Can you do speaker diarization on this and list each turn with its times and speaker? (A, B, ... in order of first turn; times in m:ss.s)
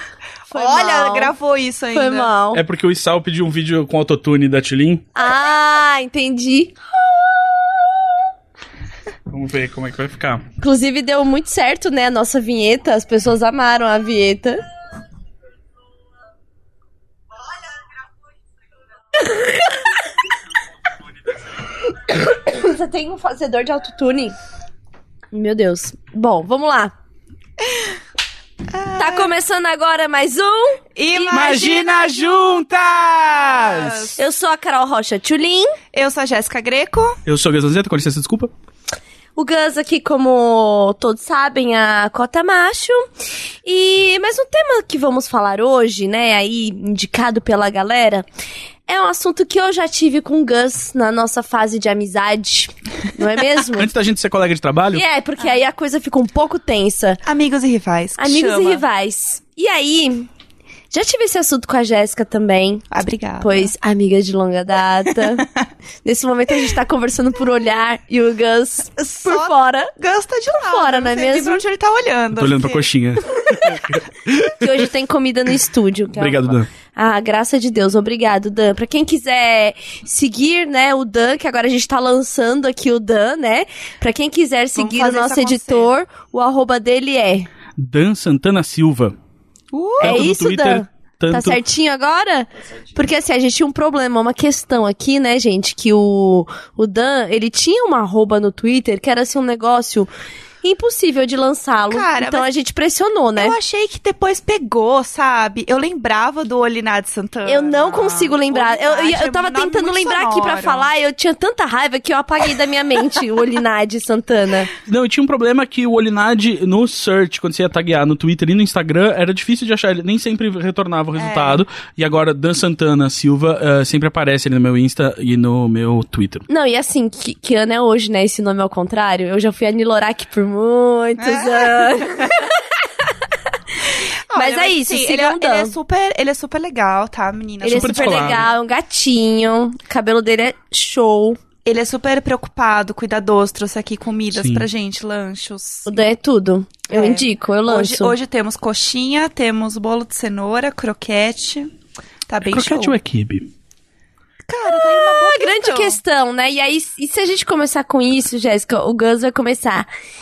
0:00.5-0:01.3 A
0:00.5-0:02.3 B
0:01.9-0:02.6 A
0:02.5-0:05.1 C
0:05.2-0:08.0 A
0:09.3-0:10.4 C
0:10.6-0:14.6 A
0:19.2-0:19.8 A
0:21.8-0:24.3 A
0:25.3-0:26.9 A
0:28.7-0:29.3 B
0:29.0-0:31.5 A
0:31.0-0:34.2 B
0:31.3-0:34.1 C
0:34.2-0:35.8 A
0:35.9-0:37.2 B
0:37.3-0:38.5 C
0:39.4-0:43.0 A
0:43.6-0:48.2 A
0:48.9-0:53.9 A
0:53.7-0:55.0 C
0:54.9-0:57.2 A
0:57.2-0:58.8 B
0:58.2-1:00.3 A
1:00.9-1:02.8 A
1:02.9-1:03.7 B
1:03.4-1:05.5 A
1:06.0-1:09.9 A
1:09.2-1:12.9 B
1:10.6-1:11.6 A
1:12.3-1:14.9 C
1:13.4-1:13.8 A
1:14.5-1:27.5 A
1:16.2-1:16.7 C
1:24.8-1:25.9 B
1:27.8-1:29.2 C
1:29.7-1:30.2 B
1:30.0-1:40.1 A
1:30.0-1:31.6 C
1:40.6-1:43.6 A
1:41.9-1:42.5 B
1:43.4-1:50.9 B
1:47.4-1:54.7 A
1:54.9-2:06.4 C
2:01.2-2:01.6 B
2:06.5-2:12.6 A
2:11.2-2:12.3 B
2:14.3-2:18.5 B
2:14.3-2:15.7 A
2:17.6-2:21.4 A
2:17.7-2:18.5 C
2:21.7-2:26.1 B
2:24.3-2:24.7 C
2:25.9-2:28.2 A
2:26.9-2:31.7 B
2:32.3-2:33.0 B
2:32.5-2:33.5 C
2:34.5-2:36.0 B
2:34.7-2:39.9 A